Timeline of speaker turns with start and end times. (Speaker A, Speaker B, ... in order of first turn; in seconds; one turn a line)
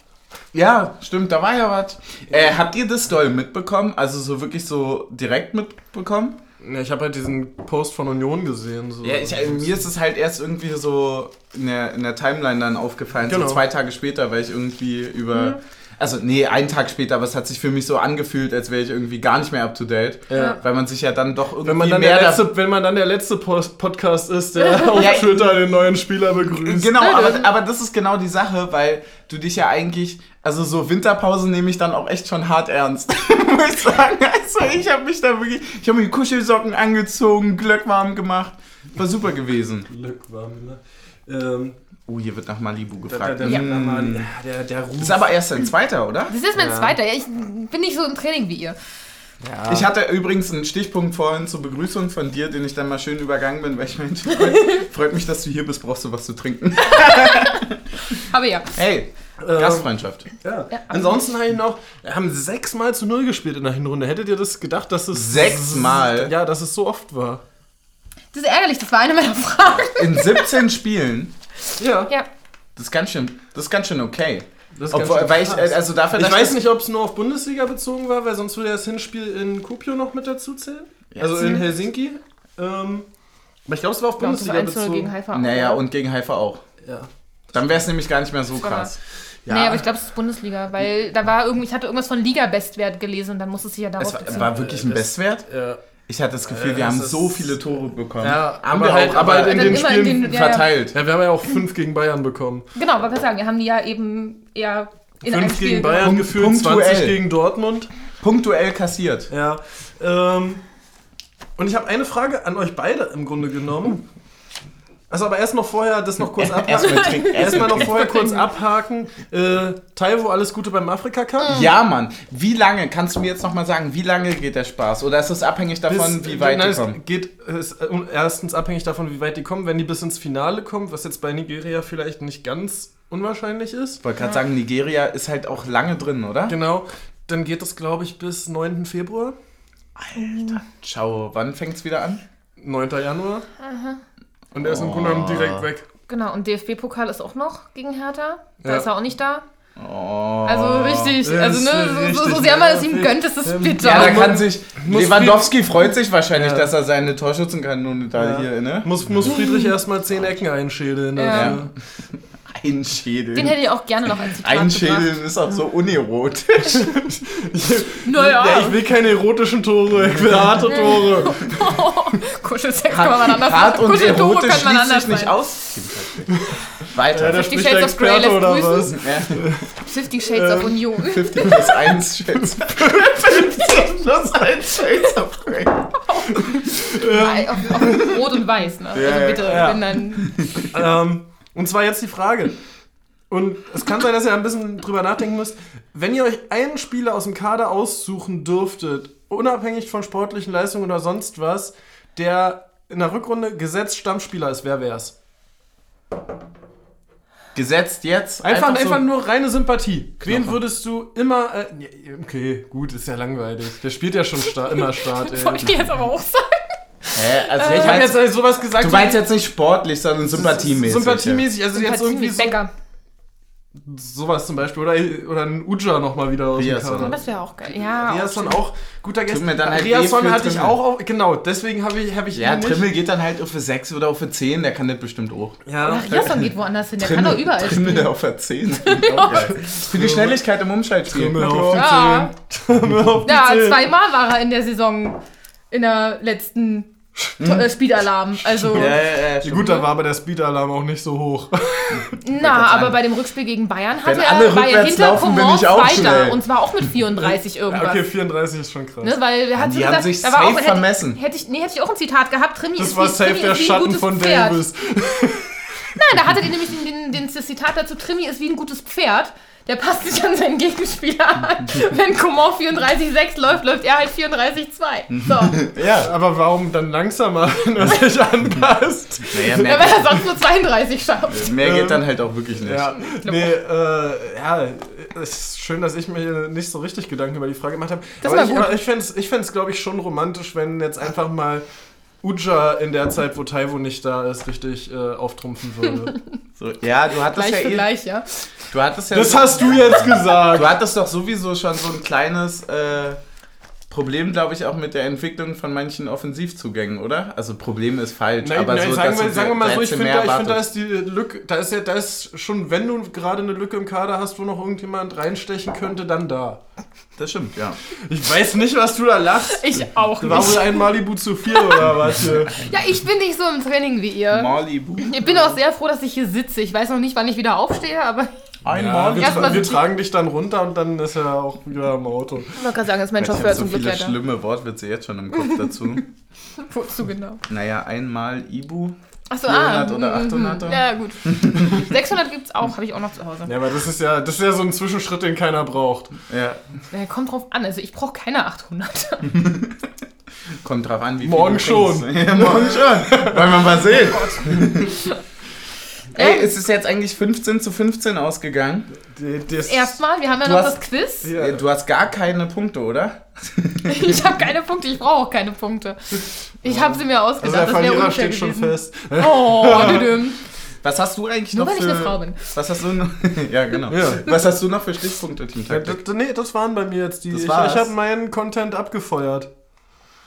Speaker A: 0.5-6.4
Speaker B: 6.6-9.7
Speaker A: 9.0-22.5
Speaker B: 13.2-13.6
Speaker B: 20.3-20.6
Speaker C: 20.3-20.6
Speaker B: 21.6-27.0
Speaker C: 24.7-25.1
Speaker A: 24.9-25.6
Speaker A: 26.5-39.9
Speaker C: 27.0-27.5
Speaker B: 39.9-41.8
Speaker A: 42.1-44.3
Speaker B: 43.1-45.3
Speaker A: 45.0-46.3
Speaker C: 46.3-48.8
Speaker B: 46.5-47.0
Speaker B: 49.4-49.9
Speaker A: 49.7-57.8
Speaker C: 57.0-57.6
Speaker C: 58.2-58.8
Speaker A: 58.8-60.3
Speaker B: 59.4-59.9
Speaker B: 60.4-67.4
Speaker C: 60.7-61.3
Speaker A: 65.1-66.3
Speaker C: 68.3-70.6
Speaker A: 69.8-71.3
Speaker B: 71.8-72.1
Speaker A: 72.8-76.6
Speaker B: 74.8-83.1
Speaker A: 81.1-81.7
Speaker B: 83.7-85.1
Speaker C: 84.2-85.8
Speaker A: 85.3-86.6
Speaker B: 86.8-87.1
Speaker A: 87.5-89.0
Speaker C: 88.6-88.9
Speaker B: 89.5-89.8
Speaker C: 89.5-94.5
Speaker A: 94.0-95.5
Speaker B: 94.3-95.8
Speaker A: 96.1-101.0
Speaker B: 96.5-97.6
Speaker B: 98.2-100.4
Speaker C: 99.3-100.7
Speaker B: 100.9-102.7
Speaker C: 102.8-106.1
Speaker B: 105.2-107.9
Speaker A: 106.0-107.2
Speaker A: 108.2-109.3
Speaker B: 109.3-110.6
Speaker B: 111.6-114.0
Speaker B: 115.1-121.7
Speaker A: 116.4-118.0
Speaker C: 116.8-118.5
Speaker A: 121.4-127.0
Speaker B: 125.9-134.0
Speaker A: 134.0-136.6
Speaker B: 136.5-139.4
Speaker A: 140.0-142.2
Speaker C: 140.2-140.6
Speaker B: 142.6-143.5
Speaker C: 143.6-144.0
Speaker B: 144.5-145.9
Speaker A: 144.6-145.7
Speaker C: 146.1-149.4
Speaker B: 148.6-148.9
Speaker A: 149.8-151.2
Speaker C: 150.4-154.4
Speaker B: 151.2-155.6
Speaker A: 153.8-159.3
Speaker B: 156.3-156.7
Speaker B: 158.2-161.7
Speaker C: 159.3-159.8
Speaker C: 161.2-161.6
Speaker A: 161.3-161.6
Speaker A: 162.5-163.6
Speaker C: 163.3-165.2
Speaker A: 164.4-167.0
Speaker B: 166.9-171.5
Speaker C: 168.1-168.8
Speaker C: 170.7-175.5
Speaker A: 172.9-177.5
Speaker B: 177.1-181.8
Speaker C: 177.3-179.0
Speaker A: 178.9-179.4
Speaker C: 179.8-181.8
Speaker A: 181.1-186.0
Speaker B: 182.3-183.8
Speaker C: 186.0-190.4
Speaker B: 186.3-188.4
Speaker A: 188.9-190.7
Speaker B: 189.4-189.8
Speaker B: 190.7-192.6
Speaker B: 193.3-205.1
Speaker A: 207.6-209.0
Speaker B: 208.4-216.0
Speaker A: 210.2-210.6
Speaker C: 214.8-218.1
Speaker A: 217.1-218.2
Speaker B: 217.6-219.2
Speaker A: 218.7-221.4
Speaker B: 220.3-222.6
Speaker C: 221.7-222.7
Speaker B: 223.8-232.9
Speaker A: 226.6-227.2
Speaker C: 227.0-228.6
Speaker A: 229.3-230.8
Speaker A: 232.3-235.6
Speaker B: 235.7-236.4
Speaker C: 235.8-238.1
Speaker A: 236.2-242.0
Speaker C: 238.8-239.5
Speaker B: 239.3-240.4
Speaker B: 241.1-243.9
Speaker C: 241.7-242.3
Speaker C: 243.2-249.0
Speaker A: 247.4-247.7
Speaker B: 248.4-252.1
Speaker A: 248.7-249.8
Speaker A: 251.9-253.0
Speaker C: 252.2-258.0
Speaker A: 254.0-256.4
Speaker B: 257.7-259.2
Speaker C: 259.0-264.6
Speaker A: 259.6-261.2
Speaker B: 262.8-266.0
Speaker C: 265.9-275.6
Speaker A: 275.1-276.1
Speaker B: 276.0-279.7
Speaker A: 279.3-280.2
Speaker C: 279.4-281.6
Speaker A: 281.3-283.0
Speaker B: 281.6-282.1
Speaker B: 282.6-291.6
Speaker C: 283.0-283.6
Speaker C: 288.2-288.8
Speaker B: 292.2-296.2
Speaker A: 296.6-297.9
Speaker C: 297.3-298.3
Speaker A: 298.7-303.2
Speaker B: 299.1-300.7
Speaker A: 303.9-310.6
Speaker B: 308.4-316.6
Speaker A: 317.2-317.8
Speaker B: 318.1-322.7
Speaker C: 319.5-321.9
Speaker C: 322.7-328.3
Speaker A: 324.3-325.4
Speaker A: 328.6-329.6
Speaker B: 328.7-332.6
Speaker C: 329.2-329.9
Speaker C: 332.6-334.1
Speaker A: 333.2-336.1
Speaker C: 335.4-336.0
Speaker C: 336.6-337.4
Speaker A: 337.5-341.9
Speaker C: 339.3-343.5
Speaker B: 343.4-346.1
Speaker A: 346.3-346.6
Speaker C: 346.9-349.3
Speaker A: 349.3-349.8
Speaker A: 350.6-355.0
Speaker B: 351.2-354.9
Speaker C: 356.1-356.5
Speaker A: 356.1-358.9
Speaker B: 359.0-360.0
Speaker C: 359.6-361.3
Speaker A: 360.4-364.3
Speaker B: 361.2-361.6
Speaker C: 363.9-370.4
Speaker B: 366.7-370.2
Speaker A: 370.8-376.0
Speaker C: 371.5-372.5
Speaker B: 373.9-374.3
Speaker B: 375.7-379.5
Speaker A: 377.3-377.9